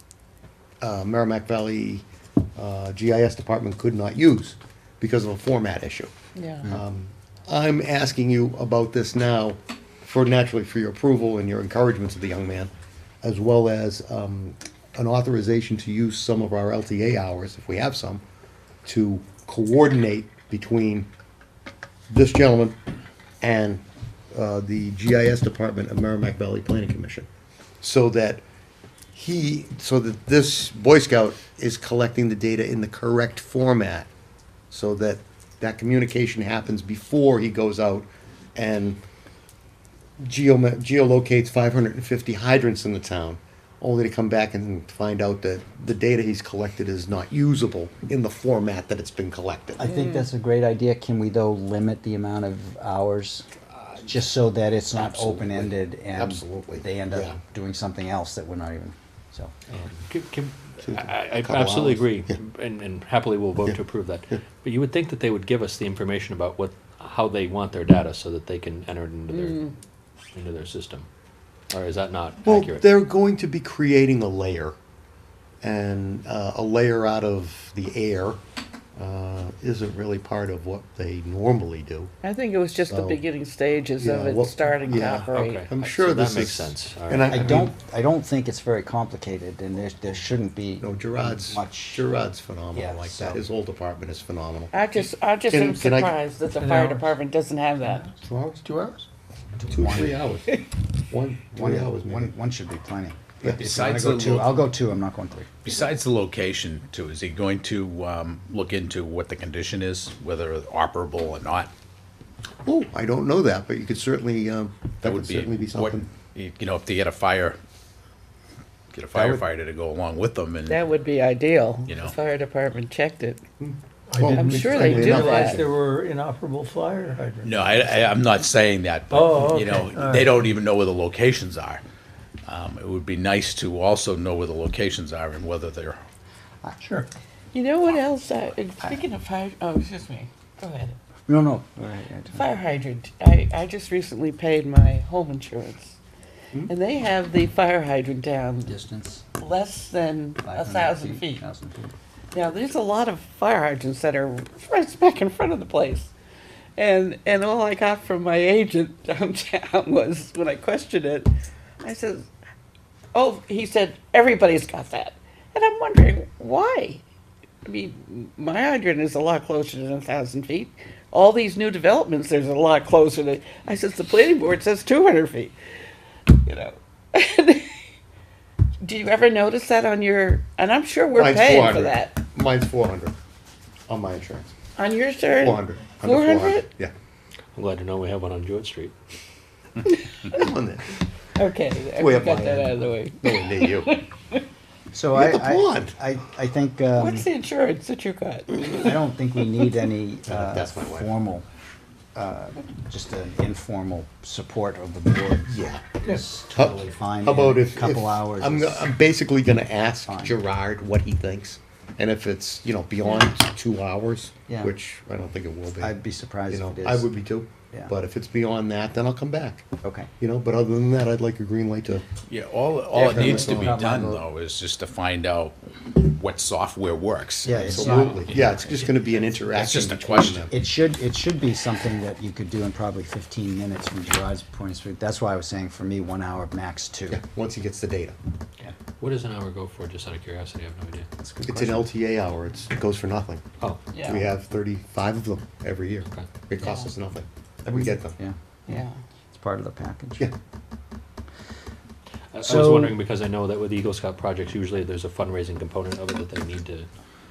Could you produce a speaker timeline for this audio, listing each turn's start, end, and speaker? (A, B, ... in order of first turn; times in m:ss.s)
0:00.8-0:06.1 A
0:06.4-0:06.7 B
0:06.7-0:12.7 A
0:13.2-0:18.2 A
0:18.8-0:21.1 A
0:22.1-0:22.8 A
0:23.4-0:27.3 A
0:27.8-0:28.4 A
0:29.1-0:34.1 A
0:34.7-0:39.0 A
0:40.2-0:49.8 A
0:49.8-0:53.4 C
0:50.0-0:50.2 B
0:53.8-0:54.1 A
0:54.0-0:59.5 C
0:54.9-0:57.4 A
0:59.7-1:00.0 A
1:00.1-1:09.7 D
1:00.8-1:02.4 A
1:09.3-1:09.7 B
1:10.3-1:11.1 D
1:11.7-1:12.9 D
1:12.4-1:14.8 A
1:15.6-1:18.4 A
1:19.0-1:22.1 A
1:22.2-1:25.6 B
1:22.9-1:23.2 A
1:24.0-1:27.7 A
1:25.1-1:27.7 D
1:27.3-1:32.1 C
1:30.8-1:34.8 A
1:32.7-1:33.4 C
1:34.7-1:38.1 B
1:35.5-1:36.2 A
1:36.6-1:37.1 E
1:38.1-1:39.1 A
1:39.6-1:40.2 C
1:39.6-1:42.3 A
1:41.6-1:45.6 C
1:43.6-1:44.6 F
1:45.6-1:51.7 F
1:52.6-1:56.1 A
1:55.0-1:57.6 F
1:58.9-2:00.8 F
1:59.1-1:59.4 A
2:00.7-2:03.4 B
2:01.9-2:02.2 F
2:03.6-2:05.7 A
2:04.1-2:07.9 E
2:04.3-2:05.6 B
2:07.4-2:11.8 F
2:09.1-2:10.5 E
2:12.4-2:16.0 F
2:16.8-2:17.1 E
2:17.5-2:21.0 B
2:21.3-2:22.5 C
2:22.3-2:26.0 B
2:26.6-2:28.7 B
2:28.6-2:29.2 C
2:29.3-2:31.4 B
2:30.4-2:31.9 C
2:32.3-2:36.1 B
2:36.8-2:41.3 B
2:41.8-2:42.3 B
2:43.1-2:47.0 B
2:47.6-2:55.6 B
2:56.4-2:57.8 B
2:58.8-3:02.1 B
3:01.2-3:03.1 A
3:03.9-3:04.5 A
3:04.8-3:06.7 B
3:05.4-3:06.9 A
3:07.5-3:08.9 D
3:10.2-3:11.0 A
3:11.4-3:14.4 B
3:12.0-3:13.9 A
3:14.9-3:17.3 C
3:15.1-3:16.0 A
3:17.0-3:18.9 B
3:18.7-3:21.4 C
3:20.2-3:21.1 A
3:22.1-3:28.9 C
3:25.4-3:25.9 A
3:26.5-3:36.0 A
3:30.0-3:30.4 C
3:34.5-3:34.7 C
3:35.8-3:37.1 C
3:36.5-3:39.6 A
3:39.8-3:40.1 C
3:40.2-3:42.0 A
3:42.3-3:48.4 F
3:42.9-3:43.8 A
3:42.9-3:44.2 C
3:47.4-3:49.2 C
3:47.5-3:50.5 A
3:49.5-3:50.4 F
3:50.5-3:57.2 C
3:57.1-3:58.2 A
3:59.0-4:01.1 D
4:01.2-4:01.9 C
4:01.4-4:03.4 A
4:03.9-4:04.3 B
4:04.0-4:08.2 A
4:07.7-4:10.3 C
4:08.7-4:09.0 B
4:12.3-4:16.9 D
4:12.4-4:13.0 C